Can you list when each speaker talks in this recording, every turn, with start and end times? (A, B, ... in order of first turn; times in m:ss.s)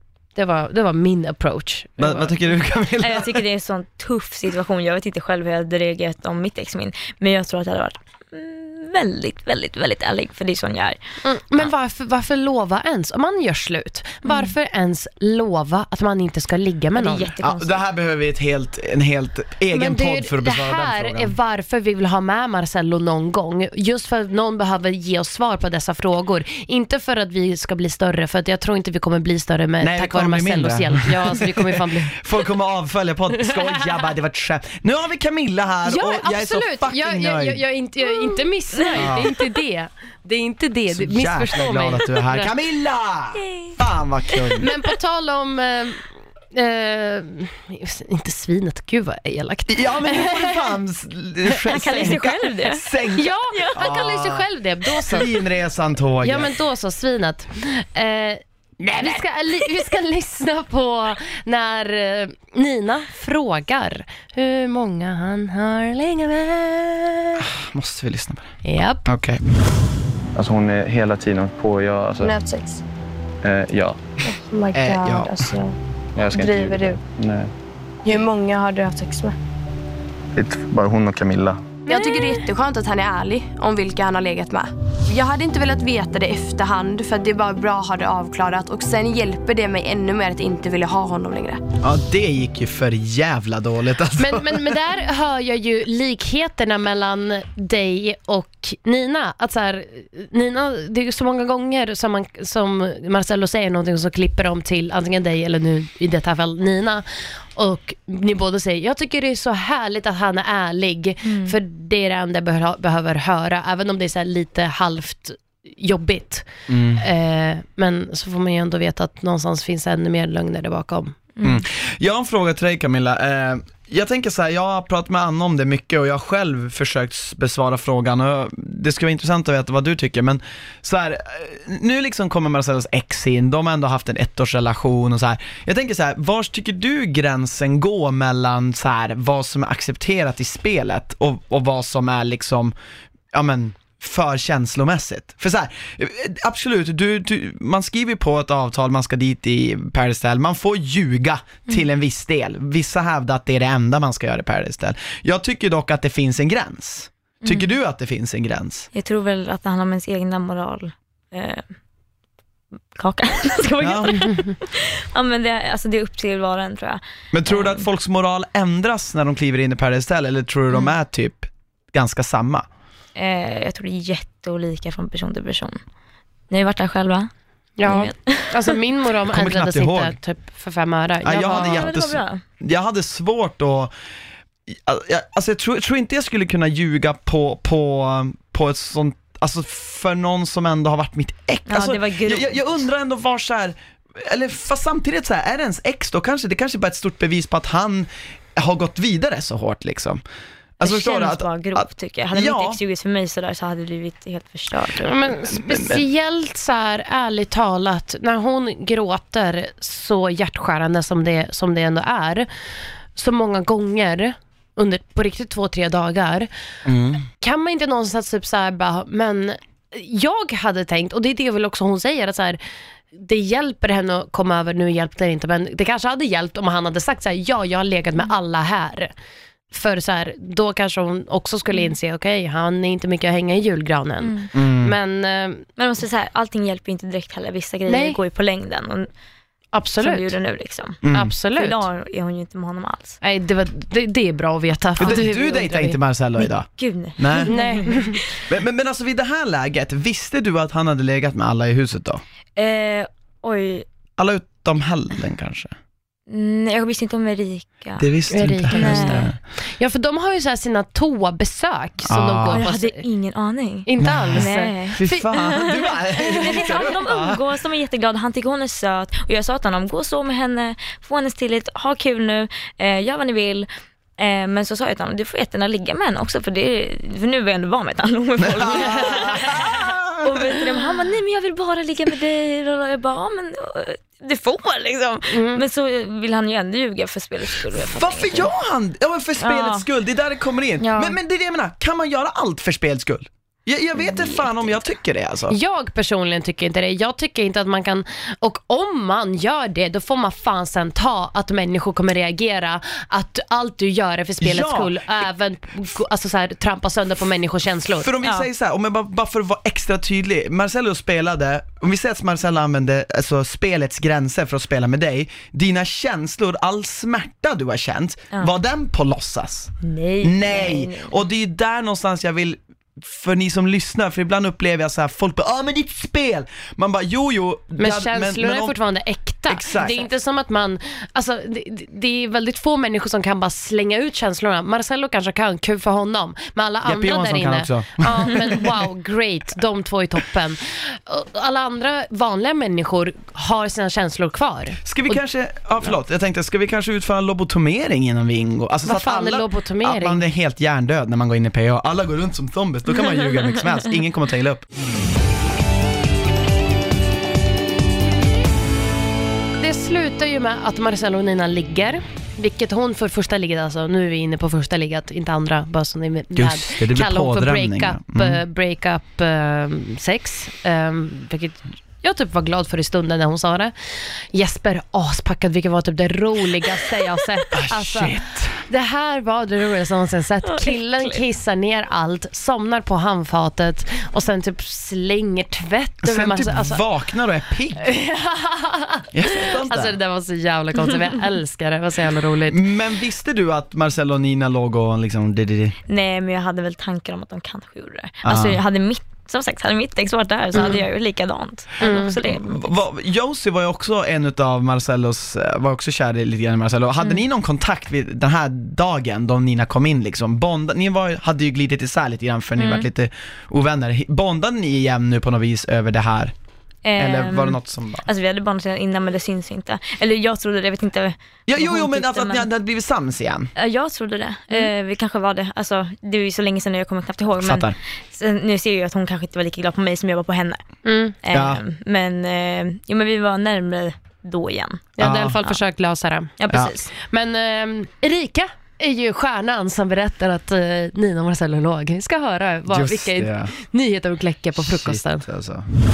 0:00.4-0:02.4 A
0:02.0-0:03.4 B
0:03.0-0:11.0 C
0:11.2-0:17.3 A
0:14.2-0:14.5 C
0:17.0-0:17.8 C
0:17.4-0:21.3 B
0:19.7-0:32.2 A
0:29.8-0:37.6 B
0:35.8-0:42.5 A
0:39.0-0:39.3 B
0:40.9-0:44.7 B
0:43.4-0:43.8 C
0:44.6-0:50.7 A
0:49.7-0:54.4 B
0:51.6-0:52.2 A
0:51.7-0:52.9 C
0:53.2-0:55.3 A
0:53.5-0:53.8 C
0:55.1-0:56.5 B
0:56.2-0:58.4 A
0:58.8-0:59.2 B
0:58.9-1:07.4 A
1:07.4-1:09.4 B
1:08.6-1:09.1 A
1:10.4-1:12.3 D
1:12.2-1:12.8 E
1:13.4-1:14.1 D
1:14.2-1:15.8 E
1:14.7-1:15.4 B
1:16.2-1:17.5 D
1:16.3-1:17.0 E
1:18.0-1:19.4 E
1:20.3-1:21.7 D
1:21.9-1:31.6 E
1:21.9-1:22.4 C
1:31.8-1:34.8 B
1:34.2-2:01.2 A
1:51.2-1:51.6 C
1:56.7-1:57.0 B
2:01.4-2:22.8 B
2:23.3-2:38.9 B
2:37.4-2:37.7 C
2:38.9-2:41.7 C
2:43.0-2:47.8 C
2:43.8-2:44.1 B
2:47.3-2:52.7 B
2:53.2-2:55.8 C
2:56.5-2:57.3 C
2:57.8-3:01.9 A
2:57.9-2:58.5 C
2:59.3-3:00.2 B
3:01.2-3:03.9 B
3:01.5-3:02.4 C
3:04.7-3:20.2 B
3:11.7-3:12.6 C
3:20.8-3:22.8 B
3:20.8-3:25.1 C
3:25.0-3:32.5 A
3:25.4-3:26.0 B
3:33.2-3:36.5 A
3:36.8-3:37.2 B
3:37.4-3:42.6 A
3:43.1-3:49.1 A
3:49.7-3:55.7 A
3:54.2-3:54.5 C
3:54.5-3:55.0 B
3:55.8-3:59.1 C
3:57.9-3:58.2 A
3:59.7-4:00.3 A
4:00.0-4:01.0 C
4:01.0-4:01.3 B
4:01.1-4:01.8 A
4:01.6-4:03.2 C
4:03.2-4:06.0 A
4:05.0-4:07.5 B
4:06.4-4:08.2 C
4:07.5-4:08.2 A
4:08.5-4:12.2 B
4:12.6-4:13.9 C
4:14.2-4:15.8 B
4:16.3-4:18.1 C
4:18.0-4:19.4 B
4:18.3-4:23.0 A
4:18.7-4:19.2 C
4:22.1-4:22.6 B
4:22.5-4:33.7 C
4:23.9-4:25.3 A
4:24.0-4:27.4 B
4:34.2-4:48.6 C
4:38.4-4:40.7 B
4:45.3-4:45.6 A
4:47.7-4:55.6 B
4:49.4-4:49.8 C
4:50.8-4:51.2 A
4:54.0-4:54.8 C
4:55.5-5:08.1 A
5:04.4-5:05.2 B
5:08.0-5:28.8 B
5:19.8-5:21.2 C
5:27.8-5:45.2 A
5:29.5-5:30.0 B
5:36.8-5:38.7 B
5:44.9-5:54.7 B
5:48.8-5:50.2 A
5:59.6-6:26.8 A
6:06.3-6:08.4 B
6:17.5-6:18.6 B
6:20.5-6:21.2 C
6:26.0-6:27.9 B
6:27.8-6:32.6 A
6:29.1-6:30.0 B
6:32.5-6:35.8 B
6:35.9-6:42.8 C
6:38.2-6:38.6 B
6:41.8-6:42.1 A
6:41.9-6:56.3 B
6:52.6-6:52.9 C
6:56.8-7:02.5 C
6:57.0-6:58.1 B
7:01.5-7:03.5 B
7:03.6-7:10.6 C
7:07.4-7:07.8 B
7:10.8-7:11.2 A
7:11.2-7:15.6 C
7:11.3-7:11.6 B
7:15.0-7:16.4 A
7:15.0-7:15.4 B
7:16.4-7:16.9 C
7:16.5-7:16.8 B
7:16.9-7:25.3 A
7:22.7-7:23.5 B
7:24.6-7:25.7 B